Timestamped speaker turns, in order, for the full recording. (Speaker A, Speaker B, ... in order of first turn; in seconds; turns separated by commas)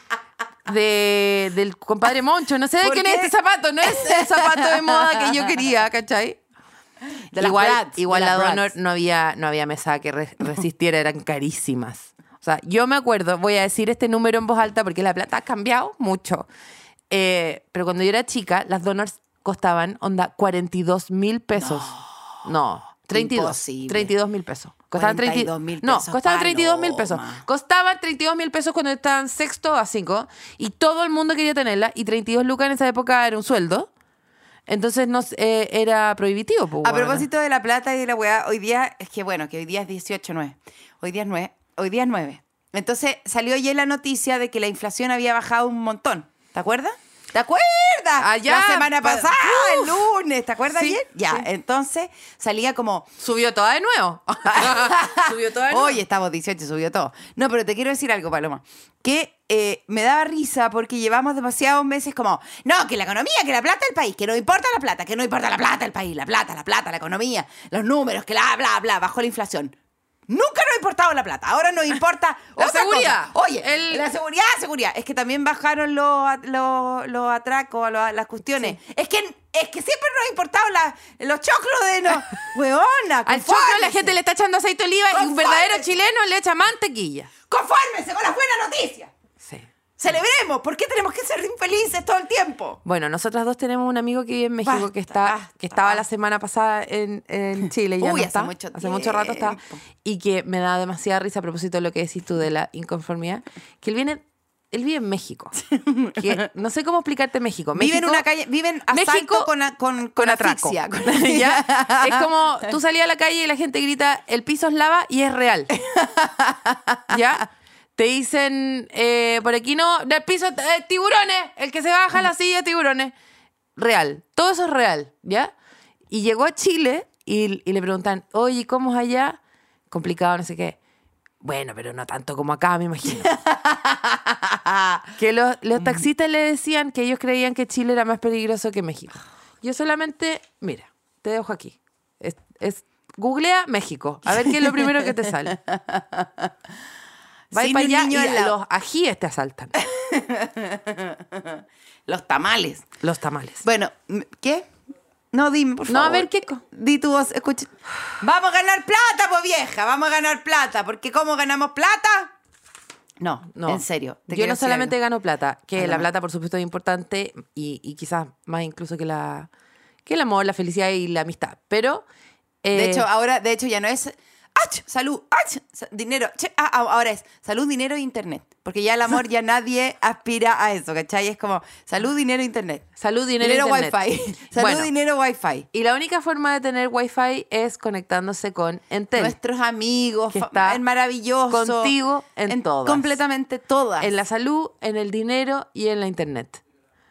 Speaker A: 0.7-6.4, Speaker B: 2.8-5.5, Speaker B: 7.3-8.7, Speaker A: 7.4-16.5, Speaker A: 17.1-33.9, Speaker B: 21.6-22.2, Speaker B: 23.1-24.1, Speaker B: 24.9-27.4, Speaker A: 34.7-37.3, Speaker B: 36.8-53.1, Speaker A: 48.2-50.0, Speaker A: 50.7-51.5, Speaker A: 53.2-56.0, Speaker B: 54.5-69.8, Speaker B: 70.3-84.2, Speaker A: 72.6-74.0, Speaker A: 83.2-87.3, Speaker B: 85.1-86.0, Speaker B: 87.5-89.1, Speaker A: 89.4-89.7, Speaker B: 90.0-92.8, Speaker A: 92.8-105.6, Speaker B: 94.6-96.0, Speaker B: 98.0-99.8, Speaker B: 105.7-106.4, Speaker A: 106.1-108.2, Speaker B: 107.7-112.7, Speaker A: 108.9-109.5, Speaker A: 110.1-115.7, Speaker B: 115.8-117.2, Speaker A: 117.1-123.1, Speaker A: 123.8-125.5, Speaker A: 126.1-129.4, Speaker A: 129.9-130.8, Speaker A: 131.4-133.3, Speaker B: 133.1-135.1, Speaker A: 135.2-145.6, Speaker B: 135.8-136.0, Speaker B: 144.3-146.5, Speaker B: 147.5-148.6, Speaker A: 147.5-149.8, Speaker B: 149.8-152.9, Speaker A: 153.0-153.6, Speaker B: 153.6-154.7, Speaker B: 155.3-162.3, Speaker A: 155.9-156.6, Speaker B: 163.2-164.9, Speaker A: 163.5-169.5, Speaker B: 165.8-166.1, Speaker A: 170.1-172.0, Speaker A: 172.6-173.1, Speaker B: 172.7-182.9, Speaker A: 183.0-184.0, Speaker B: 183.4-185.7, Speaker A: 184.6-184.9, Speaker A: 185.7-189.4, Speaker B: 189.1-191.9, Speaker A: 190.3-190.8, Speaker A: 191.5-193.2, Speaker B: 192.5-194.1, Speaker A: 194.0-196.6